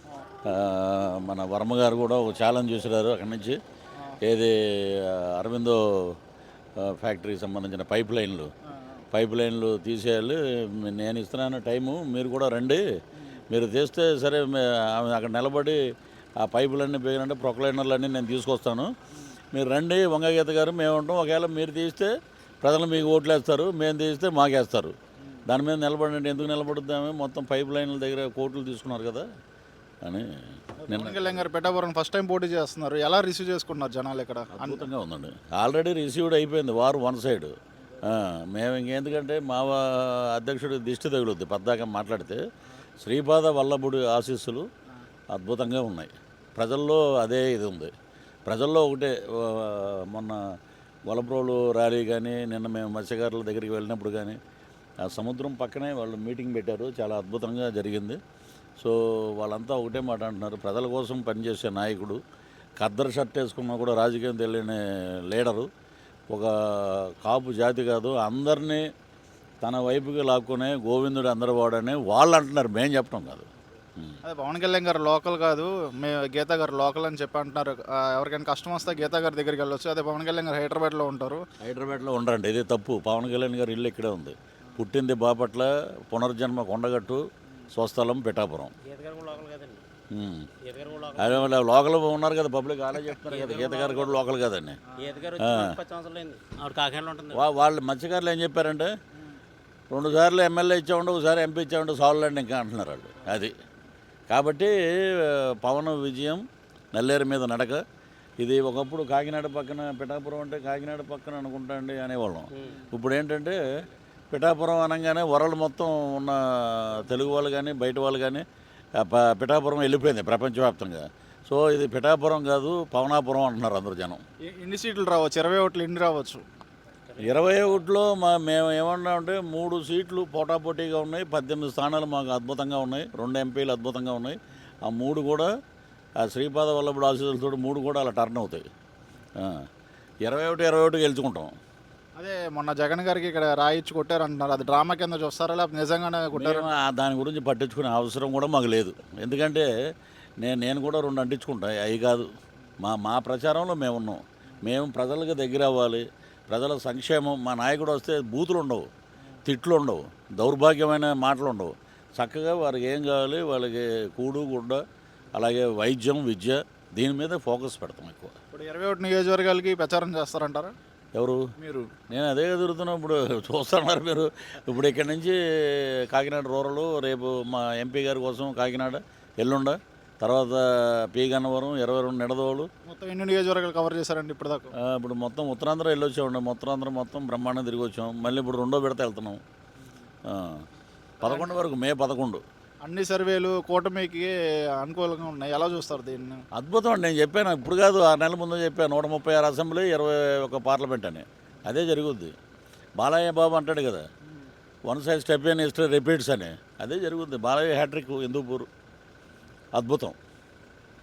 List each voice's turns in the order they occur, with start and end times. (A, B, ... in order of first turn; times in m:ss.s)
0:00.4-0:03.6 A
0:04.2-0:06.2 A
0:06.8-0:08.5 A
0:08.7-0:09.0 B
0:09.1-0:12.8 A
0:13.5-0:15.8 A
0:16.4-0:18.9 A
0:19.5-0:22.1 A
0:22.6-0:24.9 A
0:25.5-0:29.3 A
0:30.0-0:31.5 A
0:30.8-0:34.9 B
0:34.5-0:42.4 A
0:43.0-0:44.7 A
0:45.3-0:47.9 A
0:48.5-0:54.4 A
0:55.0-0:58.2 A
0:58.8-1:02.2 A
1:02.8-1:05.7 A
1:06.3-1:08.9 A
1:09.6-1:14.2 A
1:14.2-1:21.4 B
1:21.6-1:28.8 A
1:28.8-1:29.8 C
1:30.1-1:30.5 A
1:30.6-1:31.5 C
1:31.2-1:34.8 A
1:33.2-1:34.2 C
1:35.0-1:37.4 C
1:35.4-1:35.8 A
1:37.3-1:38.9 A
1:39.9-1:43.5 A
1:44.3-1:47.8 A
1:48.4-1:53.6 A
1:52.6-1:52.8 C
1:54.3-1:58.4 A
1:59.0-2:04.2 A
2:04.5-2:06.4 B
2:07.1-2:07.4 C
2:07.2-2:15.5 A
2:16.2-2:18.6 A
2:19.4-2:19.7 A
2:20.2-2:21.5 A
2:22.2-2:26.7 B
2:26.3-2:29.7 A
2:30.4-2:32.3 A
2:32.8-2:38.9 A
2:39.4-2:44.8 A
2:45.3-2:48.4 A
2:48.5-2:50.7 B
2:51.2-3:02.7 A
2:51.6-2:51.9 B
3:02.9-3:04.7 B
3:04.8-3:09.4 A
3:10.3-3:10.6 A
3:11.2-3:11.5 B
3:11.2-3:12.4 A
3:12.8-3:16.4 B
3:16.5-3:22.3 A
3:23.0-3:24.0 A
3:24.9-3:28.7 A
3:29.8-3:30.2 A